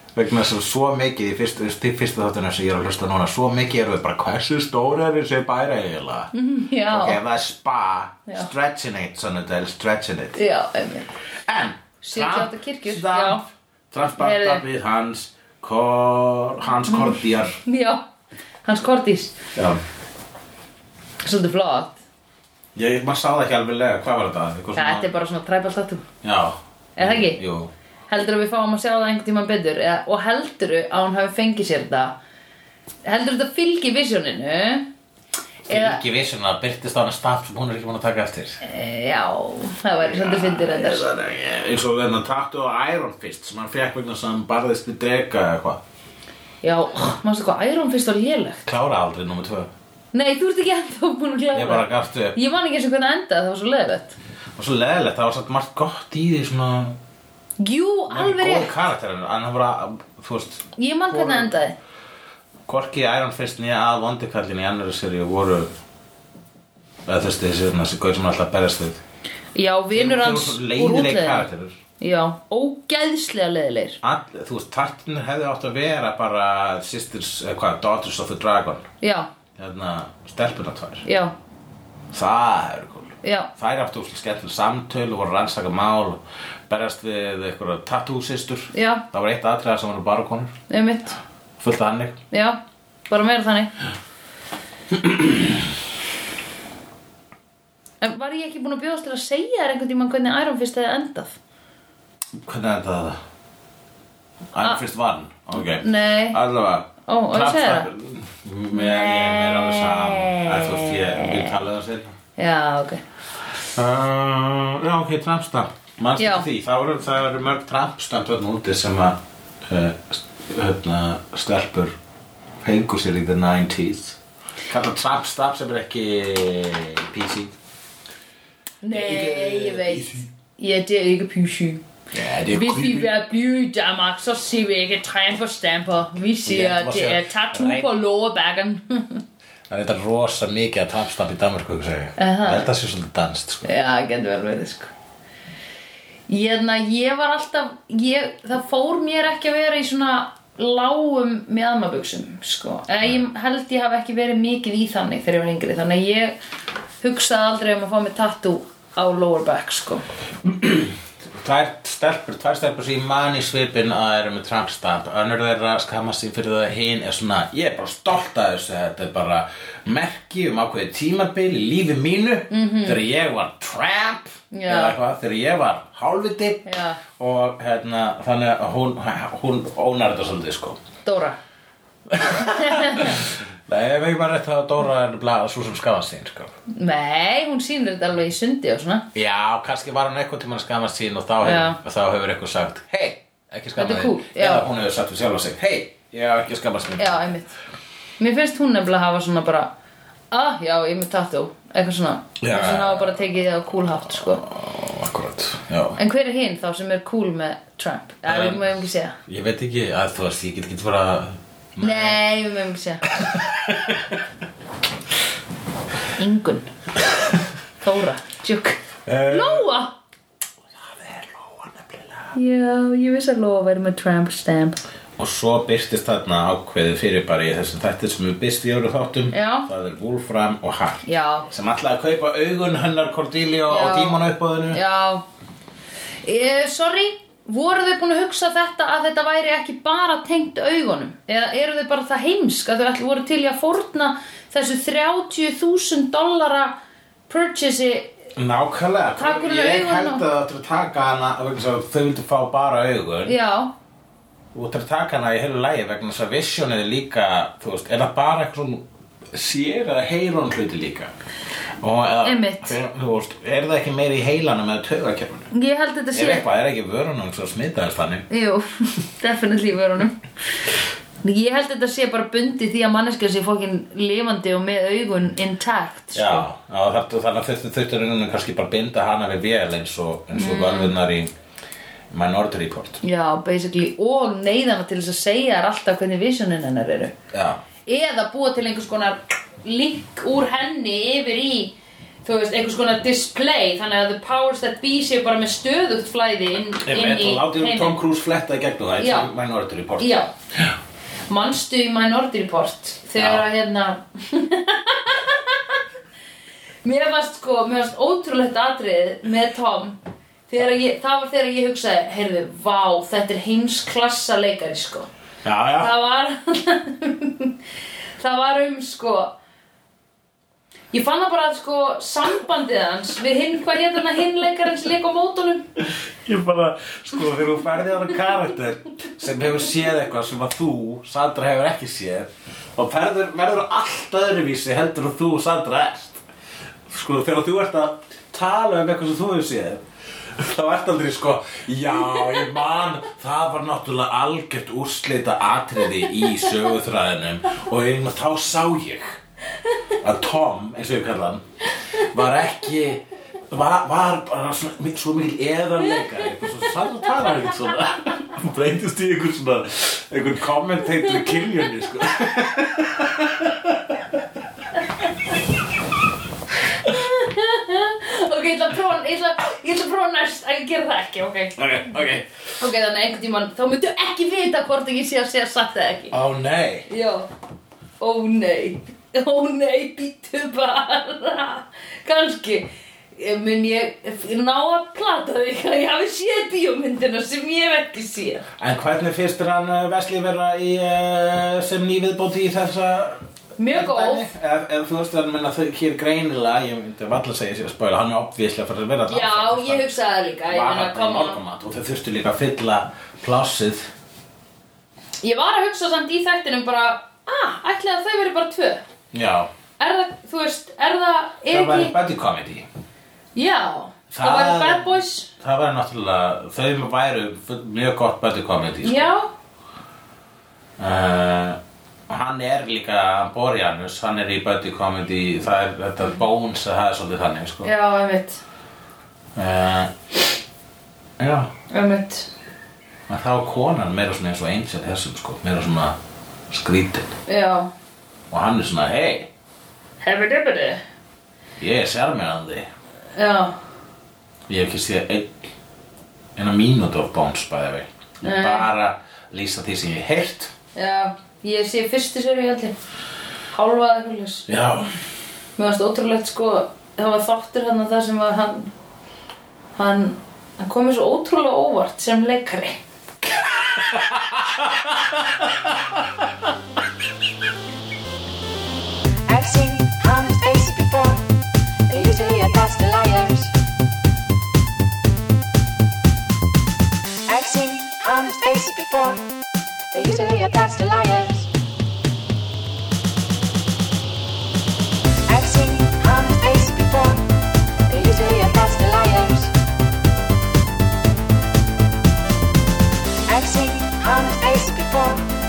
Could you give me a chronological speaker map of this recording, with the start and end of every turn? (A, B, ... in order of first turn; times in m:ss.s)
0:00.2-0:06.3 A
0:06.3-0:07.2 B
0:06.9-0:10.4 A
0:10.4-0:11.1 B
0:11.5-0:17.6 A
0:12.0-0:13.4 B
0:14.2-0:14.6 B
0:16.9-0:18.0 B
0:18.6-0:19.4 B
0:19.6-0:19.8 A
0:21.2-0:22.0 B
0:22.8-0:25.1 A
0:24.8-0:26.0 B
0:26.2-0:27.7 A
0:27.0-0:27.4 B
0:28.1-0:32.2 B
0:33.0-0:34.9 B
0:35.7-0:38.6 A
0:35.7-0:36.0 B
0:38.6-0:41.1 B
0:40.0-0:45.8 A
0:46.6-0:48.6 B
0:48.6-0:49.7 A
0:50.1-0:54.2 B
0:51.5-0:52.4 A
0:54.6-0:57.0 A
0:57.6-0:58.7 B
0:58.1-1:01.5 A
1:00.8-1:01.8 B
1:02.7-1:05.7 A
1:07.1-1:09.0 A
1:09.6-1:11.5 B
1:09.9-1:11.8 A
1:12.0-1:14.0 B
1:14.0-1:18.9 A
1:19.0-1:19.3 B
1:19.6-1:21.0 A
1:21.0-1:21.3 B
1:22.1-1:30.6 A
1:23.2-1:23.5 B
1:28.7-1:29.0 B
1:30.7-1:31.2 B
1:31.6-1:32.2 A
1:32.3-1:33.7 B
1:34.9-1:35.7 A
1:38.0-1:41.4 B
1:42.4-1:43.2 A
1:44.5-1:52.2 A
1:45.6-1:46.4 B
1:47.1-1:47.9 B
1:48.7-1:51.4 B
1:52.4-1:53.0 B
1:53.8-2:02.0 A
1:56.2-1:56.5 B
2:02.6-2:07.5 A
2:08.8-2:11.9 B
2:08.9-2:10.3 A
2:12.1-2:13.1 A
2:12.5-2:19.2 B
2:16.5-2:17.9 A
2:19.7-2:23.7 A
2:22.2-2:22.7 B
2:23.6-2:24.9 B
2:26.3-2:36.4 B
2:37.0-2:40.1 B
2:40.4-3:00.8 A
2:52.5-2:53.0 B
2:54.5-2:55.0 B
2:56.6-2:57.0 B
3:01.0-3:01.4 B
3:02.1-3:06.5 A
3:02.6-3:03.2 B
3:06.7-3:09.1 B
3:09.1-3:17.4 A
3:11.4-3:11.8 B
3:13.8-3:14.7 B
3:17.0-3:17.5 B
3:18.2-3:19.7 B
3:20.3-3:24.4 B
3:22.4-3:23.2 A
3:24.1-3:26.0 A
3:26.0-3:29.2 B
3:28.3-3:32.2 A
3:31.8-3:33.1 B
3:33.1-3:34.2 A
3:36.1-3:36.7 B
3:37.4-3:39.9 B
3:39.0-3:39.7 A
3:40.7-3:42.4 A
3:42.3-3:44.8 B
3:45.2-3:54.8 A
3:49.3-3:49.7 B
3:51.0-3:51.5 B
3:53.7-3:55.2 B
3:56.2-4:06.8 B
4:07.3-4:08.1 B
4:08.4-4:13.4 A
4:09.2-4:10.2 B
4:13.3-4:13.7 B
4:14.5-4:21.1 A
4:21.8-4:25.5 A
4:22.2-4:22.8 B
4:25.5-4:26.5 B
4:26.1-4:28.3 A
4:28.3-4:30.2 B
4:31.2-4:36.5 B
4:36.1-4:41.3 A
4:40.3-4:40.9 B
4:42.1-4:43.0 A
4:43.0-4:47.2 B
4:47.3-4:47.6 A
4:47.9-4:51.7 B
4:52.2-4:58.0 B
4:56.8-5:00.7 A
4:59.0-4:59.3 B
5:00.0-5:00.3 B
5:01.3-5:05.8 B
5:03.2-5:03.5 A
5:06.8-5:10.0 B
5:10.5-5:15.1 B
5:15.4-5:15.9 A
5:15.8-5:17.5 B
5:18.2-5:19.3 B
5:20.9-5:25.7 B
5:25.8-5:36.2 A
5:36.9-5:39.8 A
5:40.3-5:49.2 A
5:50.0-5:51.4 A
5:52.0-6:04.1 A
6:06.7-6:11.6 B
6:11.6-6:12.3 A
6:12.6-6:16.2 B
6:16.1-6:16.9 A
6:16.9-6:17.3 B
6:18.0-6:28.5 B
6:28.6-6:39.8 A
6:33.6-6:34.3 B
6:39.1-6:41.4 B
6:40.5-6:43.9 A
6:45.2-6:48.8 B
6:49.1-6:49.5 A
6:49.8-6:52.0 B
6:51.5-6:52.7 A
6:53.4-6:55.3 B
6:54.1-6:59.1 A
6:58.8-6:59.3 B
7:00.8-7:07.7 A
7:07.6-7:08.4 B
7:09.4-7:09.9 A
7:11.2-7:11.5 A
7:11.7-7:12.3 B
7:13.1-7:16.0 A
7:16.5-7:17.2 A
7:17.3-7:17.7 B
7:18.3-7:19.3 A
7:20.0-7:20.8 B
7:21.6-7:22.7 A
7:23.2-7:23.6 B
7:24.5-7:25.4 A
7:26.4-7:30.5 A
7:28.2-7:28.7 B
7:30.8-7:32.8 B
7:33.5-7:34.5 B
7:34.5-7:34.9 A
7:35.6-7:38.7 B
7:39.8-7:42.8 B
7:43.6-7:45.6 A
7:49.3-7:51.2 C
7:51.9-7:53.5 C
7:57.3-7:59.2 C
7:59.9-8:01.5 C
8:05.3-8:07.2 C
8:07.9-8:09.5 C
8:13.3-8:15.2 C